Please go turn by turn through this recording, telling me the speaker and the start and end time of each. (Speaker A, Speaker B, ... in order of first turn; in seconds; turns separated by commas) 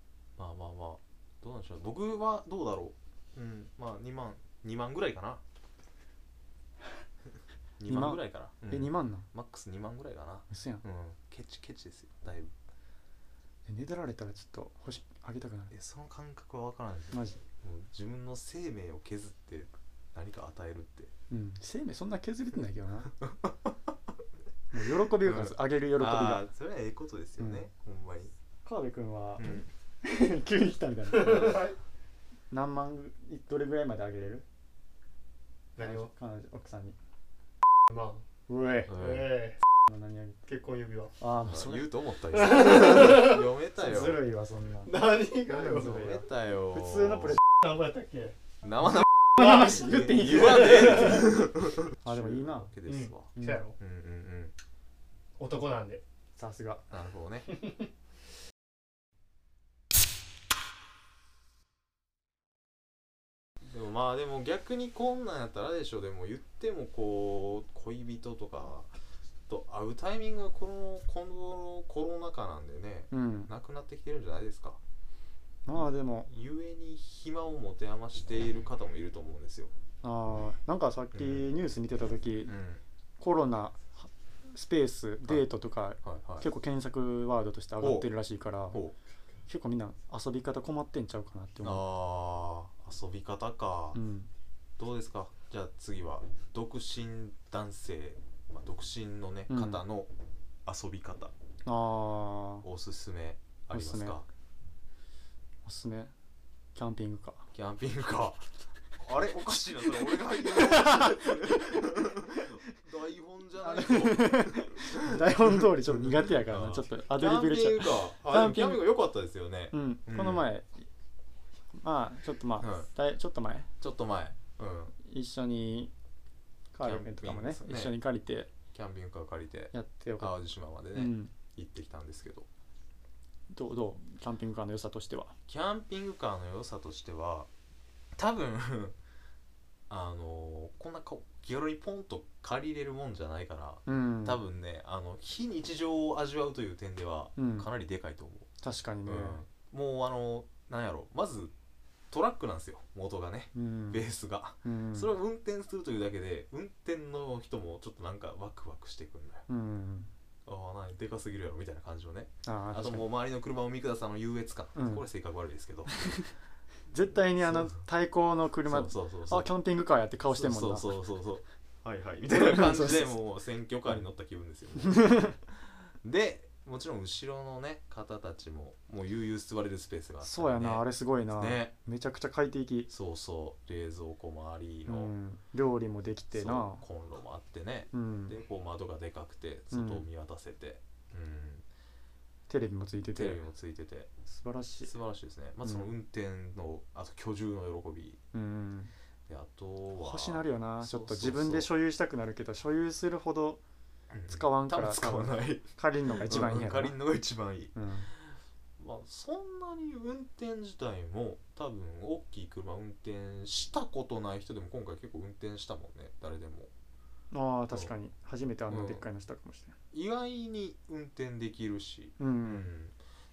Speaker A: 0.4-5.4, Speaker A: 7.8-12.5, Speaker B: 7.9-9.3, Speaker B: 10.5-10.8, Speaker B: 13.7-15.7, Speaker A: 15.7-21.1, Speaker B: 17.1-17.4, Speaker B: 21.3-23.1, Speaker A: 23.3-23.7, Speaker B: 24.7-26.5, Speaker A: 25.2-28.3, Speaker B: 28.6-31.7, Speaker A: 29.4-29.7, Speaker C: 31.2-31.7, Speaker A: 31.2-31.7, Speaker B: 32.5-34.4, Speaker C: 35.8-36.1, Speaker B: 35.8-37.0, Speaker C: 37.9-38.2, Speaker B: 38.5-39.0, Speaker A: 38.9-39.3, Speaker C: 38.9-39.6, Speaker B: 39.9-40.4, Speaker C: 40.5-41.1, Speaker B: 41.2-41.9, Speaker A: 41.4-44.2, Speaker C: 42.3-43.4, Speaker B: 43.8-45.0, Speaker C: 44.8-46.1, Speaker B: 45.5-47.4, Speaker A: 45.8-47.4, Speaker C: 47.5-48.4, Speaker A: 48.6-54.5, Speaker B: 49.4-51.3, Speaker C: 49.4-51.2, Speaker B: 52.0-52.7, Speaker C: 52.8-53.8, Speaker B: 53.3-53.7, Speaker C: 55.4-56.0, Speaker B: 56.4-56.9, Speaker A: 56.9-57.5, Speaker C: 57.5-57.8, Speaker A: 63.6-68.9, Speaker A: 69.5-74.8, Speaker B: 73.1-73.5, Speaker B: 75.7-76.3, Speaker A: 76.3-79.7, Speaker B: 80.0-82.5, Speaker A: 81.1-81.4, Speaker A: 82.5-82.8, Speaker B: 83.2-88.8, Speaker A: 86.0-86.5, Speaker A: 87.8-88.1, Speaker B: 89.5-91.8, Speaker A: 91.6-94.0, Speaker B: 93.9-94.3, Speaker A: 94.8-100.1, Speaker B: 99.5-99.8, Speaker A: 100.6-101.3, Speaker B: 101.7-102.7, Speaker A: 102.6-104.3, Speaker B: 103.7-104.2, Speaker B: 105.6-106.1, Speaker B: 106.7-107.5, Speaker A: 107.5-120.4, Speaker B: 110.4-111.6, Speaker B: 113.6-118.9, Speaker B: 119.7-120.9, Speaker B: 121.8-123.7, Speaker A: 122.6-122.9, Speaker A: 123.8-124.9, Speaker B: 125.0-125.9, Speaker B: 126.7-128.5, Speaker A: 126.8-128.0, Speaker A: 128.7-132.5, Speaker B: 129.7-130.3, Speaker B: 130.9-131.3, Speaker B: 133.5-135.3, Speaker A: 135.5-137.5, Speaker A: 138.1-138.9, Speaker A: 139.9-148.5, Speaker B: 143.8-144.4, Speaker B: 147.4-147.7, Speaker B: 148.6-149.4, Speaker A: 149.0-151.5, Speaker A: 152.1-159.4, Speaker B: 153.5-154.0, Speaker B: 154.6-155.1, Speaker B: 159.5-160.1, Speaker A: 160.4-166.2, Speaker B: 162.4-163.1, Speaker B: 164.7-165.0, Speaker B: 166.9-171.0, Speaker A: 167.4-167.8, Speaker A: 168.6-169.5, Speaker A: 170.3-181.7, Speaker B: 172.3-173.2, Speaker B: 174.8-175.3, Speaker B: 180.2-182.9, Speaker A: 182.9-185.1, Speaker B: 184.8-186.8, Speaker A: 186.3-191.6, Speaker B: 187.9-188.3, Speaker B: 189.7-190.0, Speaker B: 192.5-193.4, Speaker A: 193.1-194.1, Speaker B: 194.3-194.9, Speaker A: 194.8-198.2, Speaker B: 195.6-195.9, Speaker B: 198.3-198.9, Speaker A: 199.3-201.7, Speaker B: 200.0-203.6, Speaker A: 204.1-216.7, Speaker B: 204.3-207.0, Speaker B: 207.7-208.1, Speaker B: 217.3-219.8, Speaker A: 218.7-219.0, Speaker A: 219.9-222.9, Speaker B: 222.2-222.7